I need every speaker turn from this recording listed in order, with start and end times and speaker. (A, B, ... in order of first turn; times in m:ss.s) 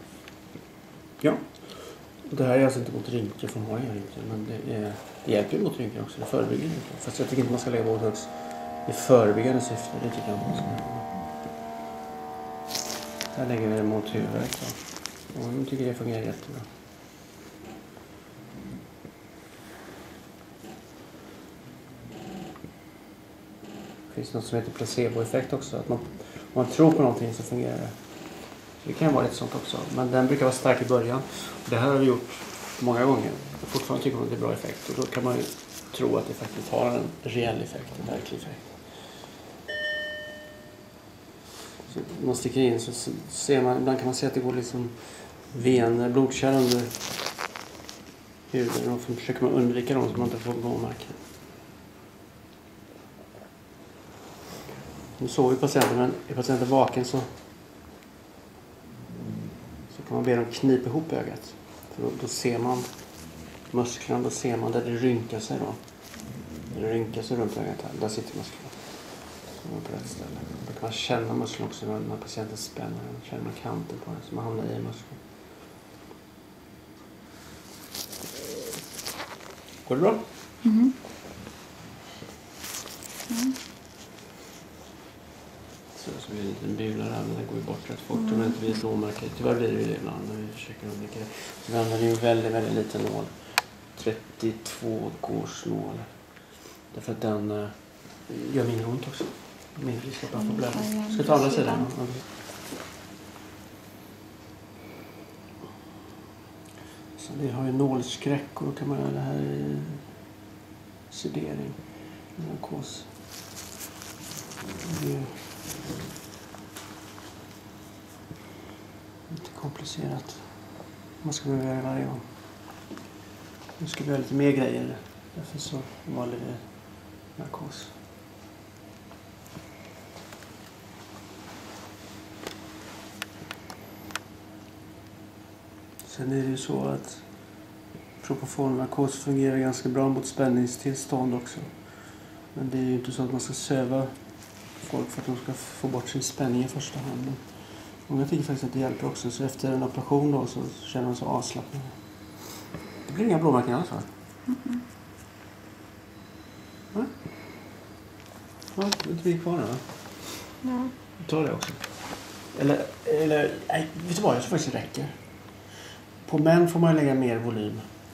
0:01.2-0:11.2 A
0:13.3-0:16.6 A
0:24.1-0:39.0 A
0:41.9-0:47.2 A
0:48.5-0:51.2 A
0:55.0-0:57.3 A
0:59.9-1:15.3 A
1:19.8-1:20.3 A
1:20.6-1:20.9 B
1:23.3-1:23.6 B
1:25.9-1:36.3 A
1:28.2-1:28.5 B
1:36.8-1:42.3 A
1:40.3-1:41.9 B
1:47.1-1:50.1 A
1:51.1-1:53.3 A
1:54.8-1:55.5 A
1:59.3-2:02.7 A
2:03.8-2:08.0 A
2:16.0-2:17.5 A
2:18.2-2:34.1 A
2:34.5-2:34.8 B
2:36.9-2:37.8 A
2:38.7-2:40.6 A
2:40.6-2:40.9 B
2:41.1-2:45.3 A
2:46.2-2:47.9 A